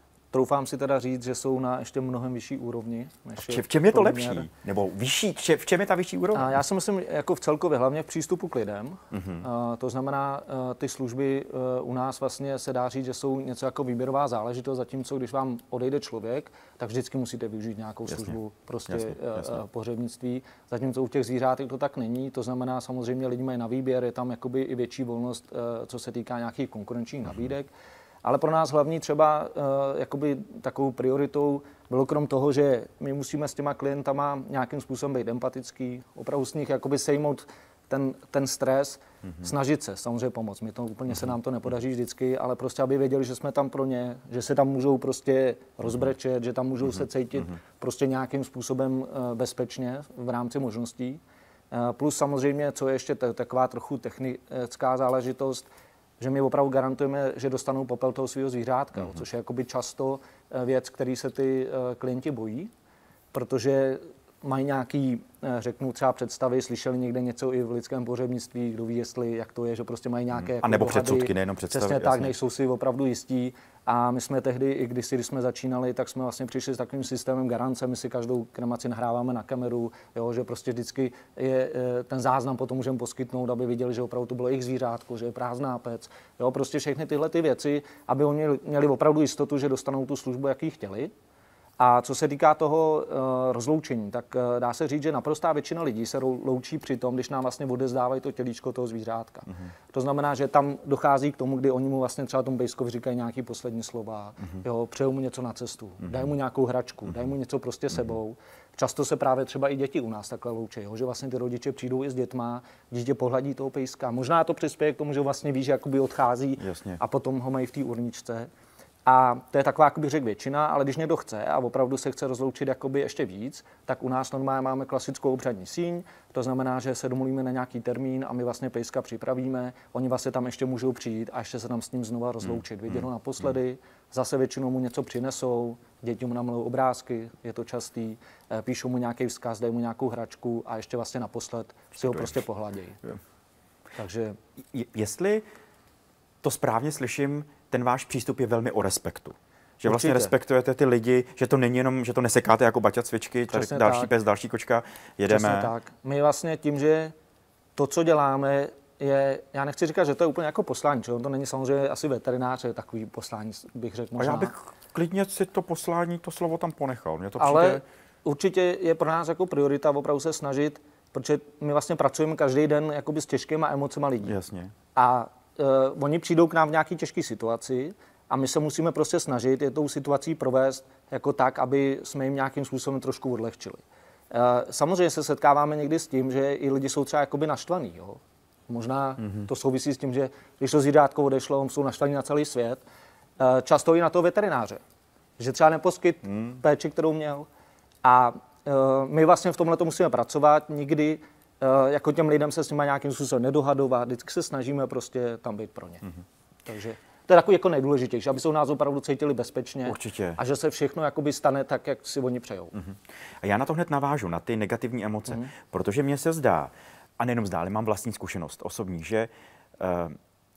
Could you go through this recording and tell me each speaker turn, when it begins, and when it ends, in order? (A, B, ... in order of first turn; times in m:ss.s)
0:00.3-0:04.5 A
0:03.4-0:06.6 B
0:06.3-0:27.7 A
0:09.1-0:09.4 B
0:18.1-0:18.4 B
0:18.9-0:19.6 B
0:28.2-0:55.7 A
0:56.2-1:02.7 A
1:03.3-1:31.1 A
1:10.3-1:12.3 B
1:31.8-1:58.5 A
1:56.6-1:57.0 B
1:59.0-2:23.0 A
2:22.0-2:22.4 B
2:24.0-2:24.4 A
2:24.7-2:25.4 B
2:26.4-2:35.7 B
2:29.9-2:30.3 A
2:33.5-2:34.1 A
2:35.3-2:37.1 A
2:37.8-2:44.5 A
2:44.2-2:47.8 B
2:47.4-2:54.3 A
2:54.2-2:54.7 B
2:54.9-3:12.8 A
3:13.4-3:14.8 A
3:15.4-3:17.5 A
3:16.3-3:16.6 B
3:18.0-3:26.0 A
3:26.6-3:32.7 A
3:29.8-3:30.4 B
3:32.7-3:40.2 B